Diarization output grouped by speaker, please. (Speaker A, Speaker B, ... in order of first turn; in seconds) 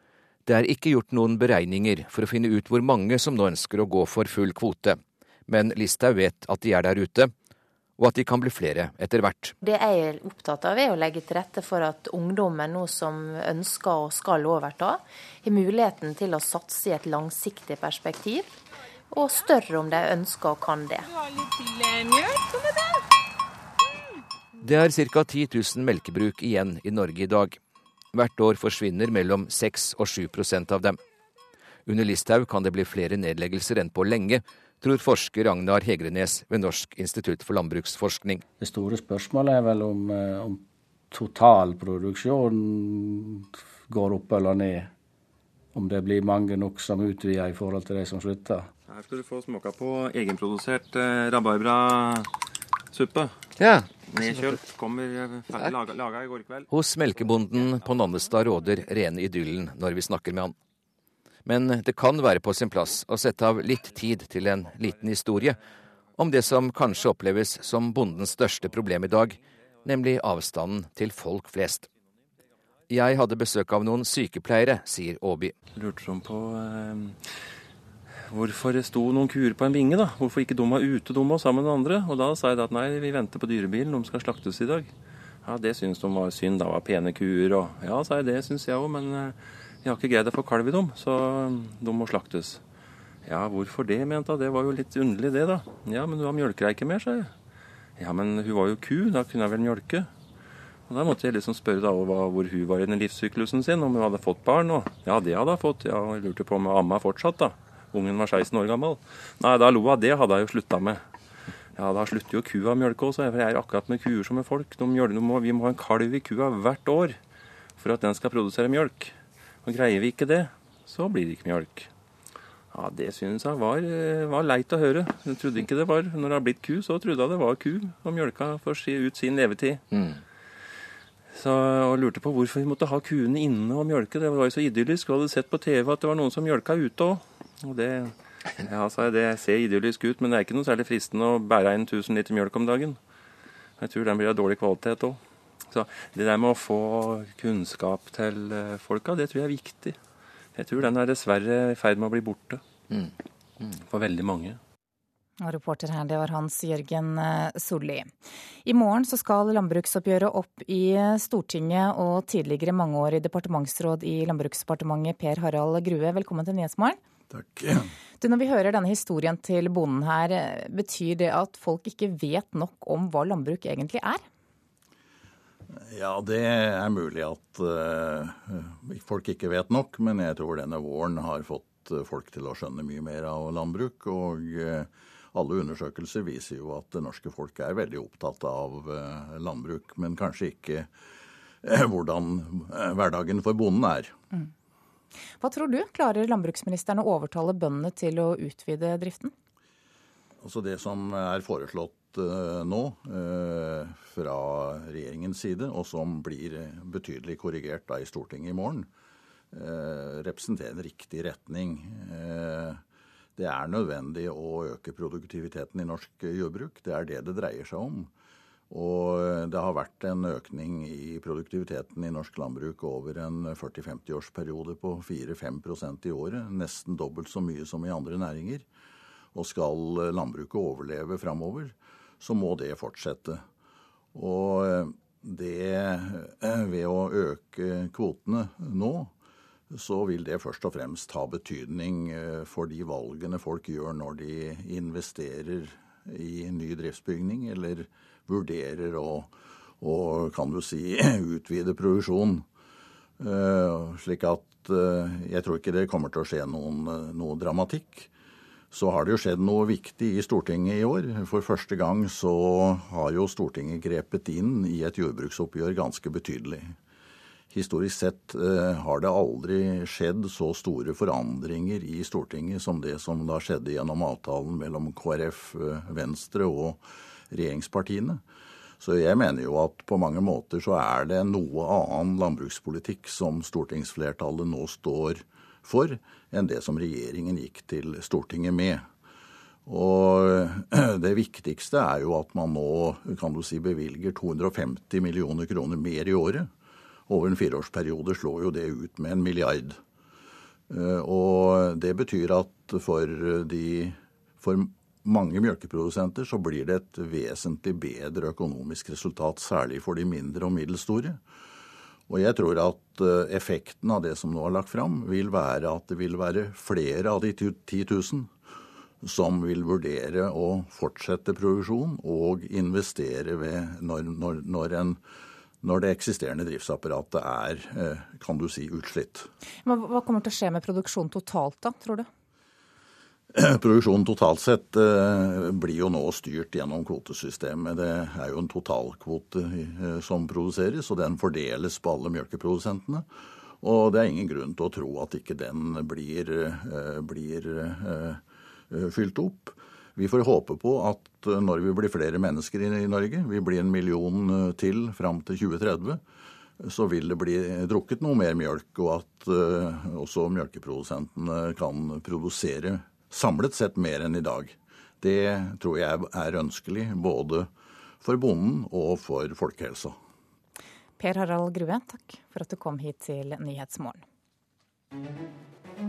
Speaker A: 0.5-7.3, 8.0-9.5, 24.6-27.6, 28.1-31.0, 31.9-38.4, 56.7-60.5, 61.5-65.6, 66.2-71.9, 72.9-75.5
Speaker B: 9.6-18.5, 19.1-21.1
Speaker C: 38.6-44.9, 45.7-48.7
Speaker D: 48.9-52.3, 52.9-53.4, 54.1-56.6, 75.7-77.2, 78.3-84.9, 85.4-92.6, 93.2-97.3, 98.0-100.1, 100.9-111.0, 111.8-117.2, 117.8-121.9, 122.7-129.8, 131.3-143.0, 143.8-150.0, 150.6-152.6, 153.9-154.6
Speaker E: 155.4-158.1, 158.6-167.0, 168.2-174.2, 195.4-199.3, 329.6-332.1, 371.0-374.0
Speaker F: 167.3-167.9, 175.7-190.9, 191.6-194.1, 200.4-208.9, 209.5-212.8, 213.3-218.1, 218.7-228.6, 229.3-233.4, 234.1-239.1, 239.7-252.4, 253.2-258.1, 258.7-266.7, 267.5-278.2, 278.8-288.9, 289.6-296.5, 297.1-299.8, 300.7-311.2, 312.1-318.3, 319.0-325.0, 325.6-329.3, 333.3-343.1, 343.6-356.0, 356.6-367.5, 368.0-370.0